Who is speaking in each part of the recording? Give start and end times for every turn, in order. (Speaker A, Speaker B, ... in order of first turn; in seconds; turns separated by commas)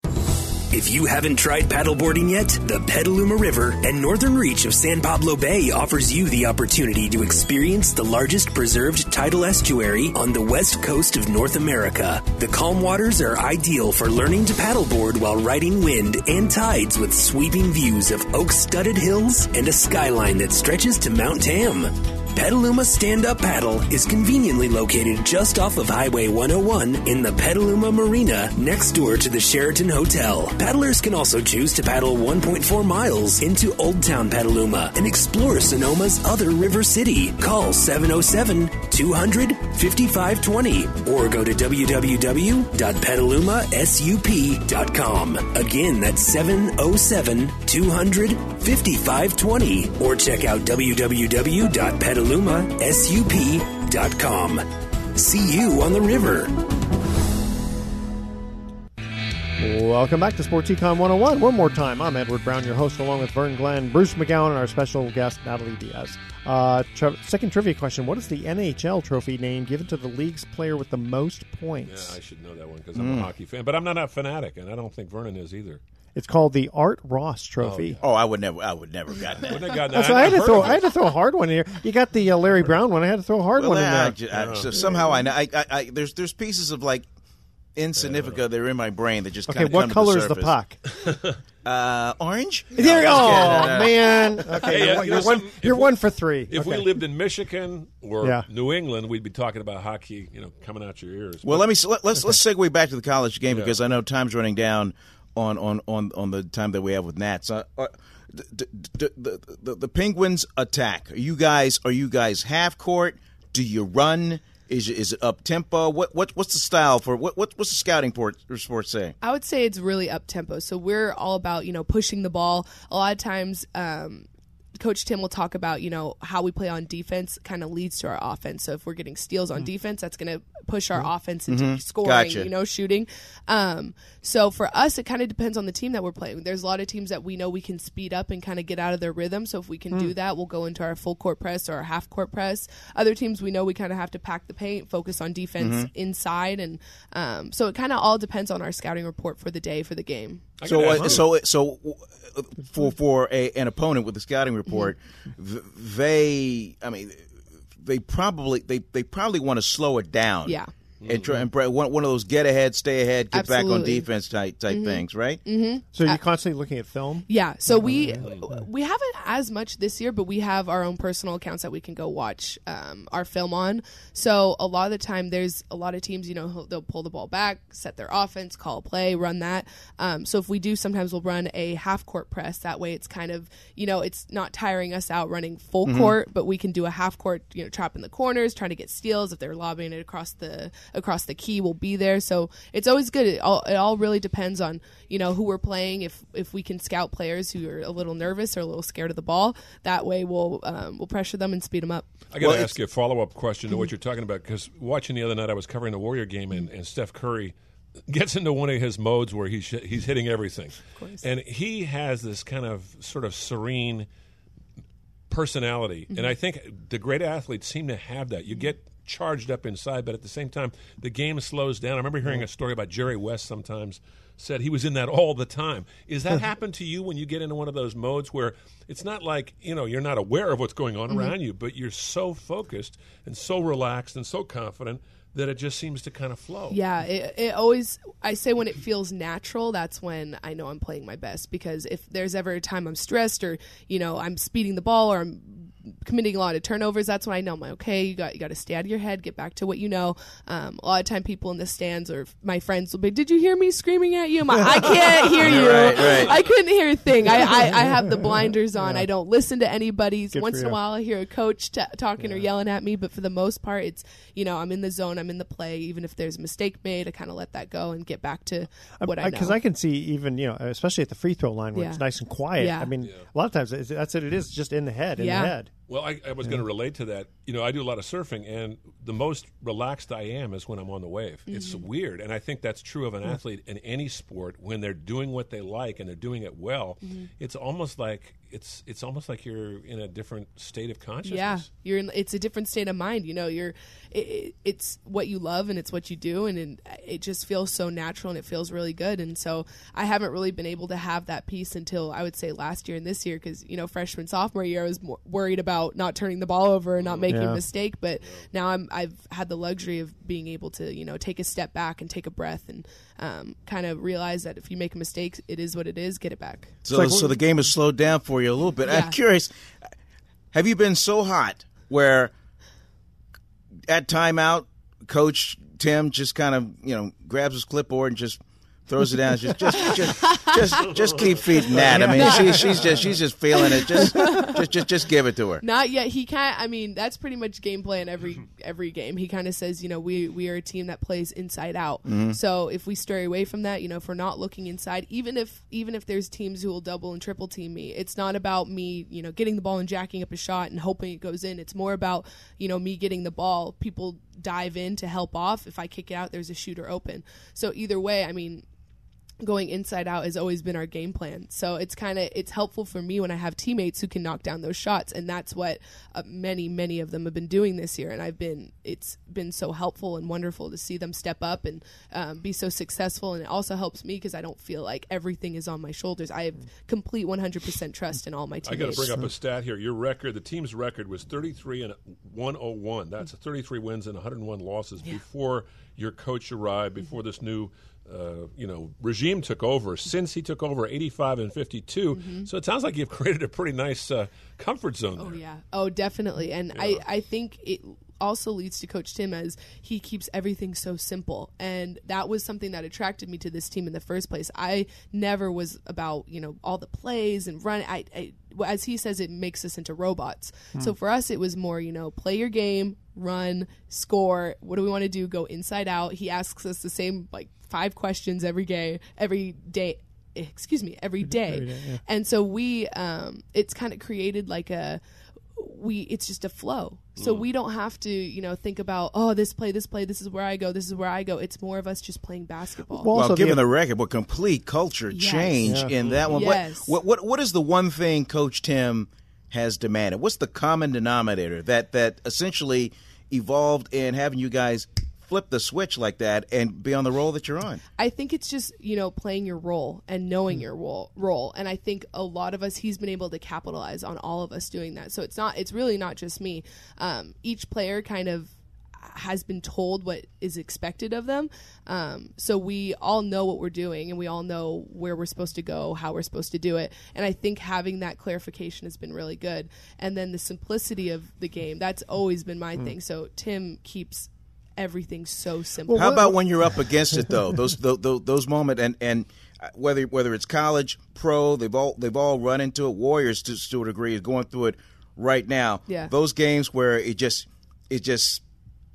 Speaker A: 0.7-56.5, Speaker B: 59.6-72.2, Speaker C: 71.8-75.8, Speaker D: 72.9-73.3, Speaker B: 76.2-78.0, Speaker C: 77.6-78.0, Speaker D: 78.0-79.8, Speaker C: 79.4-80.9, Speaker B: 79.9-84.2, Speaker D: 83.6-87.0, Speaker C: 84.3-84.7, Speaker E: 84.8-85.2, Speaker D: 87.8-90.5, Speaker C: 88.0-88.4, Speaker B: 89.5-90.8, Speaker C: 90.9-91.4, Speaker D: 91.6-95.2, Speaker B: 92.7-96.9, Speaker C: 92.8-93.9, Speaker C: 94.5-101.7, Speaker B: 98.2-98.5, Speaker D: 101.4-119.1, Speaker C: 103.5-103.7, Speaker E: 119.2-124.3, Speaker E: 124.8-150.4, Speaker D: 131.5-132.5, Speaker D: 145.6-145.9, Speaker C: 150.6-151.3, Speaker D: 150.7-157.2, Speaker B: 150.8-151.2, Speaker D: 157.8-165.4, Speaker E: 160.4-160.7, Speaker C: 161.0-161.4, Speaker E: 163.3-164.1, Speaker E: 164.7-166.2, Speaker B: 165.9-168.3, Speaker E: 167.3-202.1, Speaker D: 185.8-186.2, Speaker C: 202.3-207.5, Speaker D: 202.4-202.7, Speaker C: 208.1-214.1, Speaker E: 210.9-211.2, Speaker C: 215.3-236.8, Speaker E: 236.7-269.6, Speaker B: 254.6-255.7, Speaker D: 255.4-256.3, Speaker B: 257.2-259.1, Speaker B: 260.3-260.8, Speaker B: 262.2-262.5, Speaker B: 269.0-275.7, Speaker E: 271.7-272.0, Speaker E: 272.6-272.9, Speaker E: 275.2-275.5, Speaker C: 275.9-291.7, Speaker E: 281.5-281.9, Speaker E: 287.0-287.3, Speaker E: 291.2-316.7, Speaker C: 307.0-307.3, Speaker B: 307.3-307.6, Speaker D: 316.8-319.5, Speaker B: 316.9-317.4, Speaker E: 318.9-319.2, Speaker D: 320.5-322.3, Speaker D: 323.9-335.6, Speaker E: 329.8-330.9, Speaker C: 330.9-333.0, Speaker E: 331.8-332.7, Speaker E: 333.5-334.6, Speaker E: 335.6-358.6, Speaker D: 342.0-342.4, Speaker E: 359.4-379.2, Speaker C: 378.6-395.4, Speaker E: 392.1-392.5, Speaker E: 395.2-425.0, Speaker C: 396.7-397.0, Speaker B: 421.2-422.0, Speaker E: 425.6-433.1, Speaker C: 427.2-427.4, Speaker B: 432.9-433.7, Speaker D: 433.1-447.8, Speaker E: 435.1-435.6, Speaker B: 435.6-435.9, Speaker C: 436.0-436.4, Speaker E: 436.3-436.9, Speaker E: 448.0-476.3, Speaker B: 475.9-476.5, Speaker D: 475.9-488.4